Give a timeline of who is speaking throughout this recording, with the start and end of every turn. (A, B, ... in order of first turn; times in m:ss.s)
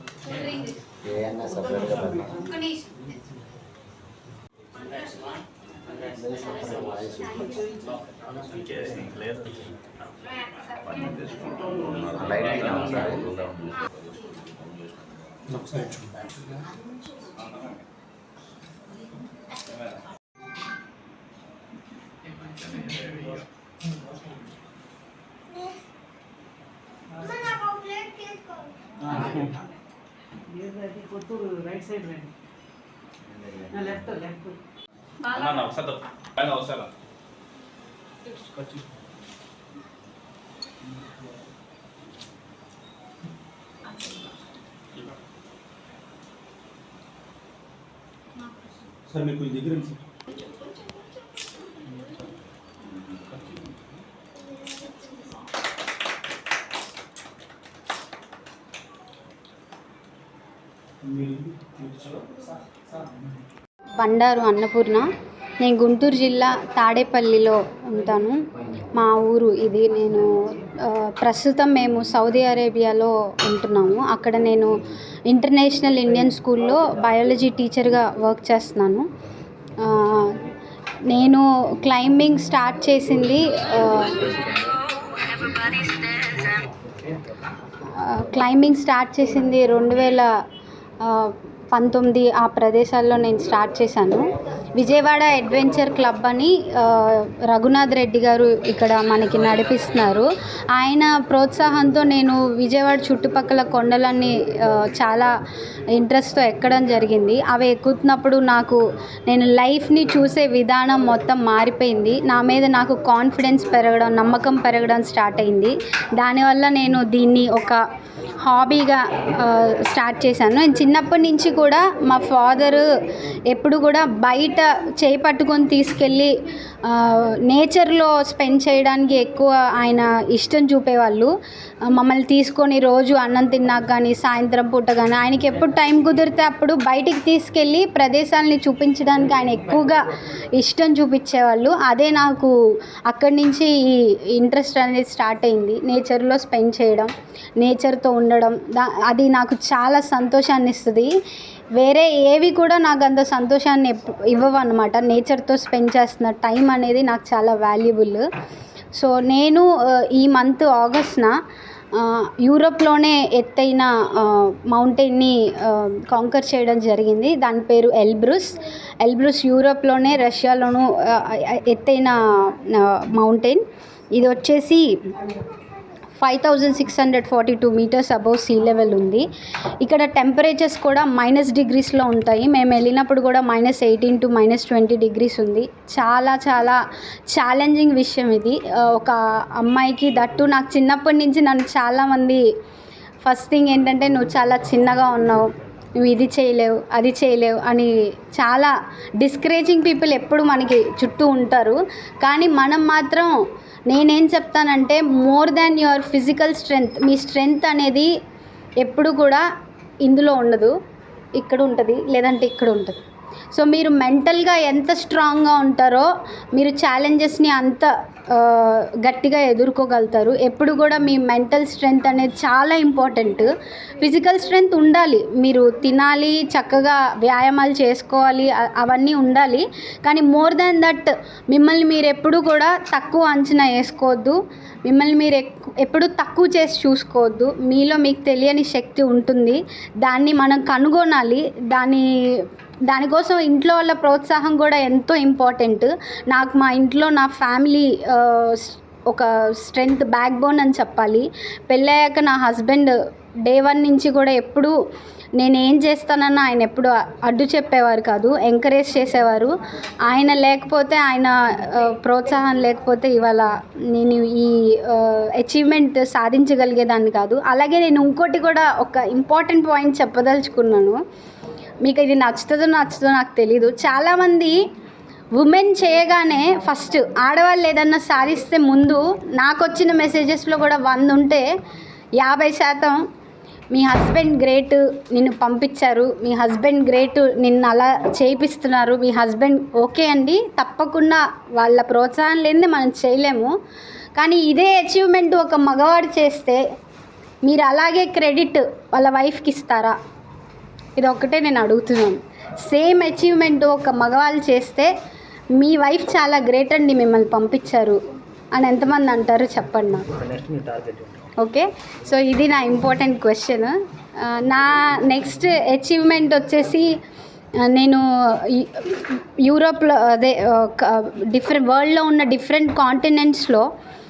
0:01.0-0:02.5 A
0:01.6-0:02.0 B
0:06.3-0:07.5 A
0:12.2-0:13.3 A
0:12.4-0:13.1 C
0:15.5-0:16.1 D
0:22.7-0:23.0 C
0:27.2-0:27.4 B
0:29.1-0:29.5 C
0:30.5-0:32.3 B
0:33.7-0:34.6 B
0:35.2-0:36.9 C
0:38.3-0:38.8 B
0:43.9-0:44.3 C
0:49.1-0:50.0 D
0:50.4-0:51.0 C
1:01.0-1:02.3 D
1:04.0-1:05.1 E
1:05.6-1:14.8 E
1:15.3-1:19.1 E
1:19.8-1:20.4 E
1:21.1-1:24.5 E
1:25.3-1:26.0 E
1:27.9-1:30.3 E
1:31.0-1:45.3 E
1:45.9-1:57.8 E
1:58.4-2:02.9 E
2:03.5-2:11.3 E
2:11.8-2:22.6 E
2:23.1-2:31.1 E
2:31.8-2:38.2 E
2:38.9-2:41.4 E
2:41.9-2:55.3 E
2:56.2-2:59.3 E
2:59.8-3:12.4 E
3:13.2-3:23.3 E
3:23.9-3:28.1 E
3:28.8-3:29.4 E
3:30.0-3:30.7 E
3:31.4-3:33.0 E
3:33.5-4:14.7 E
4:15.4-4:19.5 E
4:20.0-4:31.0 E
4:31.8-4:34.6 E
4:35.4-4:41.5 E
4:42.2-4:43.0 E
4:43.7-4:53.5 E
4:54.2-4:56.6 E
4:57.5-5:00.0 E
5:01.0-5:04.9 E
5:05.6-5:08.0 E
5:08.5-5:10.1 E
5:10.2-5:11.2 B
5:11.4-5:17.0 E
5:17.6-5:23.7 E